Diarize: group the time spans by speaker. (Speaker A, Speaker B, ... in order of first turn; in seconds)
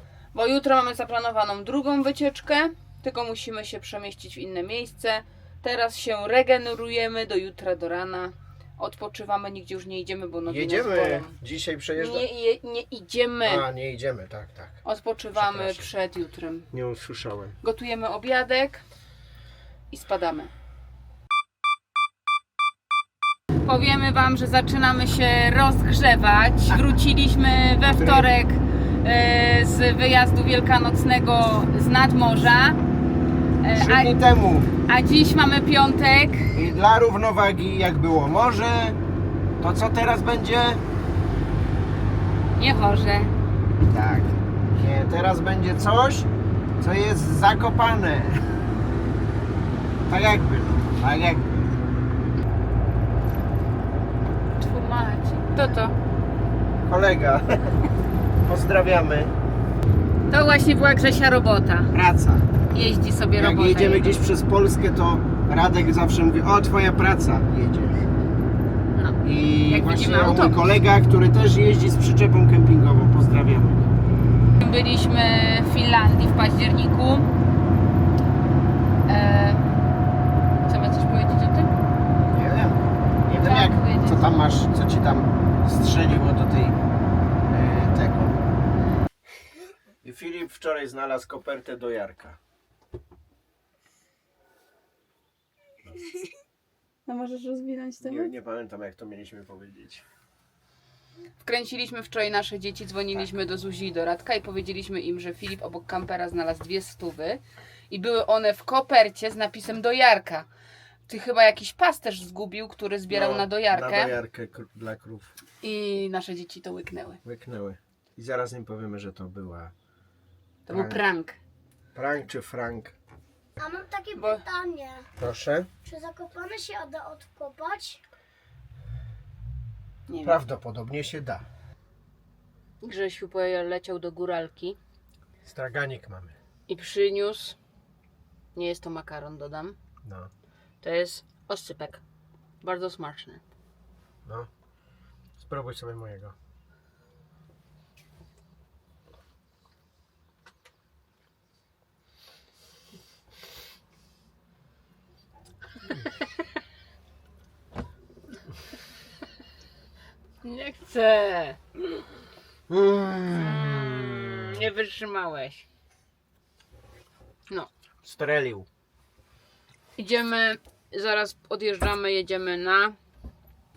Speaker A: 0.3-11.3, 11.9-13.7, 14.8-16.7, 17.6-18.8, 19.9-20.5, 23.6-32.8, 33.6-34.2, 34.9-36.5, 42.6-43.3, 54.6-55.9, 60.3-61.9, 62.7-64.2, 68.9-70.6, 74.6-77.3, 79.1-79.6, 80.7-81.7, 83.4-84.3, 97.1-98.3, 101.4-110.5, 111.1-114.2, 115.6-117.2, 120.7-121.4, 124.1-124.4, 130.1-130.4, 132.8-134.8, 136.7-137.6, 138.5-139.8, 140.8-142.0, 142.6-143.4, 160.4-162.0, 163.3-165.6, 170.0-173.0
Speaker B: 10.5-12.2, 13.4-14.8, 15.3-15.9, 16.7-17.6, 27.8-28.3, 33.7-34.7, 36.5-39.0, 39.6-40.8, 43.8-48.5, 50.1-51.6, 56.8-57.8, 58.4-59.3, 61.9-62.5, 63.3-68.0, 69.2-73.9, 82.3-86.8, 87.5-88.5, 90.0-92.4, 98.0-100.0, 113.1-115.3, 117.2-119.7, 120.7-121.0, 121.9-122.9, 125.2-125.7, 130.2-131.4, 135.4-136.3, 140.0-140.3, 145.4-146.3, 162.7-164.6, 168.0-168.7
Speaker C: 123.6-125.1, 125.8-128.0